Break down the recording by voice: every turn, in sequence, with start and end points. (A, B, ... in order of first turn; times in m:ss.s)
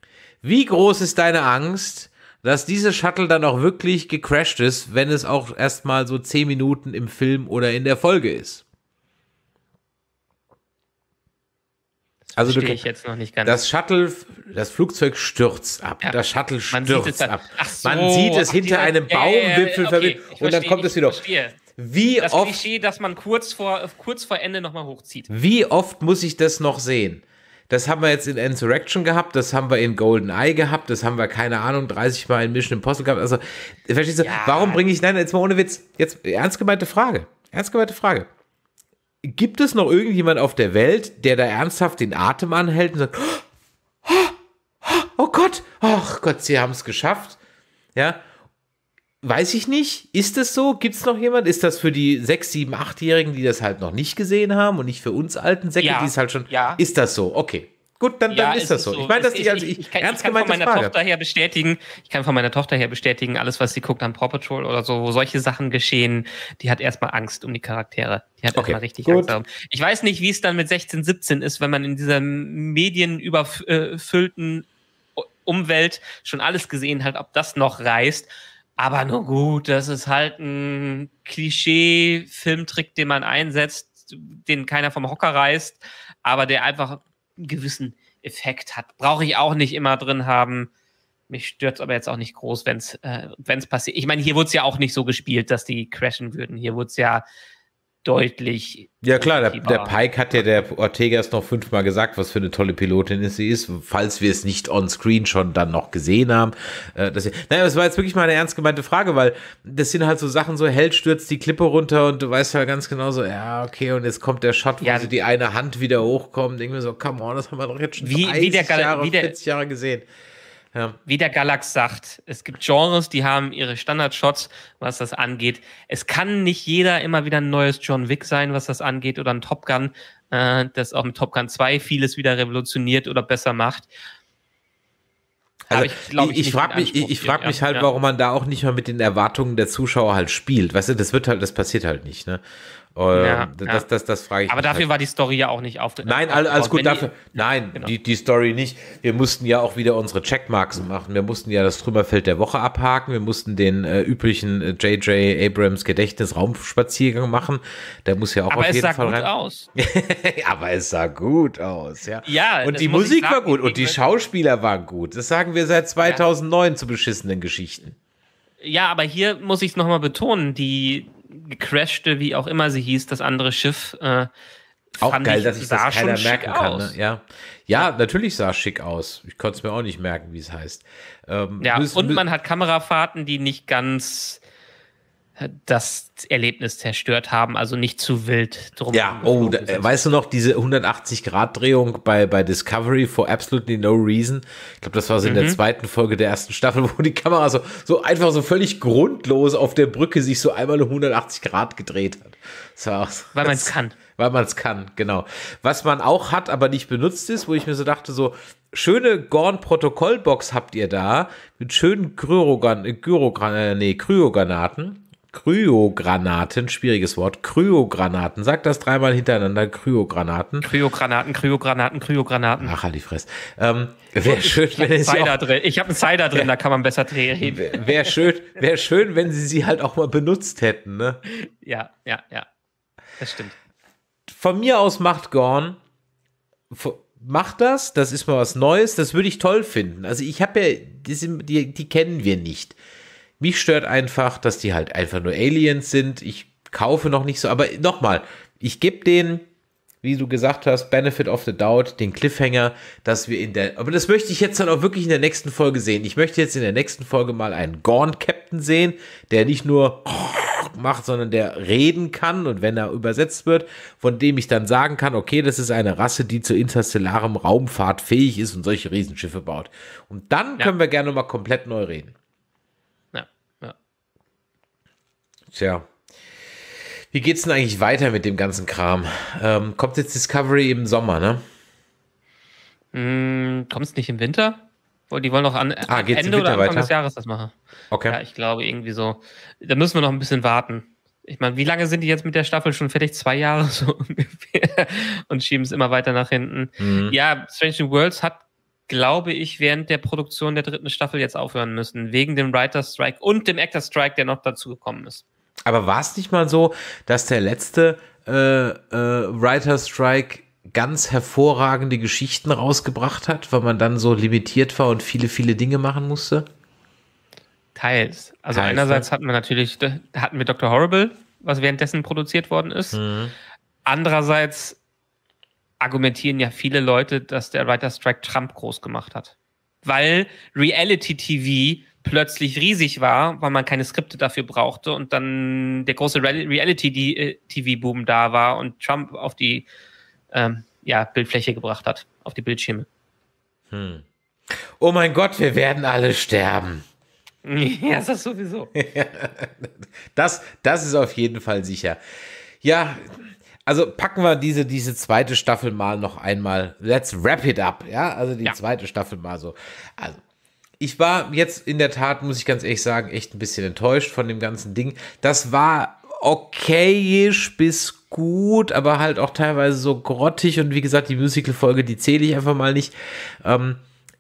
0:00.4-0:08.6 A
0:12.4-0:13.6 B
0:12.4-0:12.8 A
0:13.4-0:22.6 A
0:16.7-0:21.6 B
0:22.2-0:25.3 B
0:25.3-0:38.3 A
0:34.2-0:34.8 B
0:39.2-0:43.4 A
0:44.0-0:47.4 A
0:48.0-0:48.2 A
0:49.2-1:00.9 A
0:55.8-0:56.8 B
0:58.3-1:14.6 B
1:08.6-1:09.4 A
1:15.2-1:30.7 B
1:31.3-1:37.2 B
1:38.0-1:40.5 B
1:39.0-2:00.1 A
1:54.8-1:55.1 B
1:58.0-1:59.4 B
2:01.1-2:13.9 B
2:15.7-2:22.4 A
2:15.7-2:17.9 B
2:23.0-2:24.9 A
2:23.1-2:23.8 B
2:24.5-2:27.9 B
2:26.0-2:48.0 A
2:38.5-2:39.7 B
2:42.2-2:44.0 B
2:48.6-2:54.3 B
2:55.0-2:57.0 B
2:55.0-3:02.2 A
3:01.6-3:04.4 B
3:05.4-3:09.9 B
3:08.9-3:40.7 A
3:15.2-3:15.6 B
3:23.4-3:24.0 B
3:40.6-3:42.8 B
3:42.6-3:45.4 A
3:44.2-3:48.0 B
3:47.4-3:51.2 A
3:51.3-3:52.5 B
3:53.2-3:53.6 B
3:54.3-3:55.8 A
3:56.7-4:02.8 A
4:03.4-4:09.5 A
4:10.0-4:32.2 A
4:33.1-4:33.8 B
4:35.5-4:35.9 A
4:37.1-4:41.4 A
4:42.9-4:47.6 B
4:45.9-4:46.9 A
4:47.9-4:48.2 A
4:48.1-5:05.2 B
4:56.8-4:57.2 A
5:05.7-5:16.5 A
5:17.8-5:23.0 B
5:18.5-5:19.1 A
5:22.9-5:23.3 A
5:23.9-5:24.8 B
5:25.8-5:39.7 B
5:40.3-5:42.9 B
5:43.7-5:46.8 A
5:47.4-5:48.7 B
5:48.8-5:52.0 A
5:52.6-6:00.2 A
6:00.8-6:13.8 A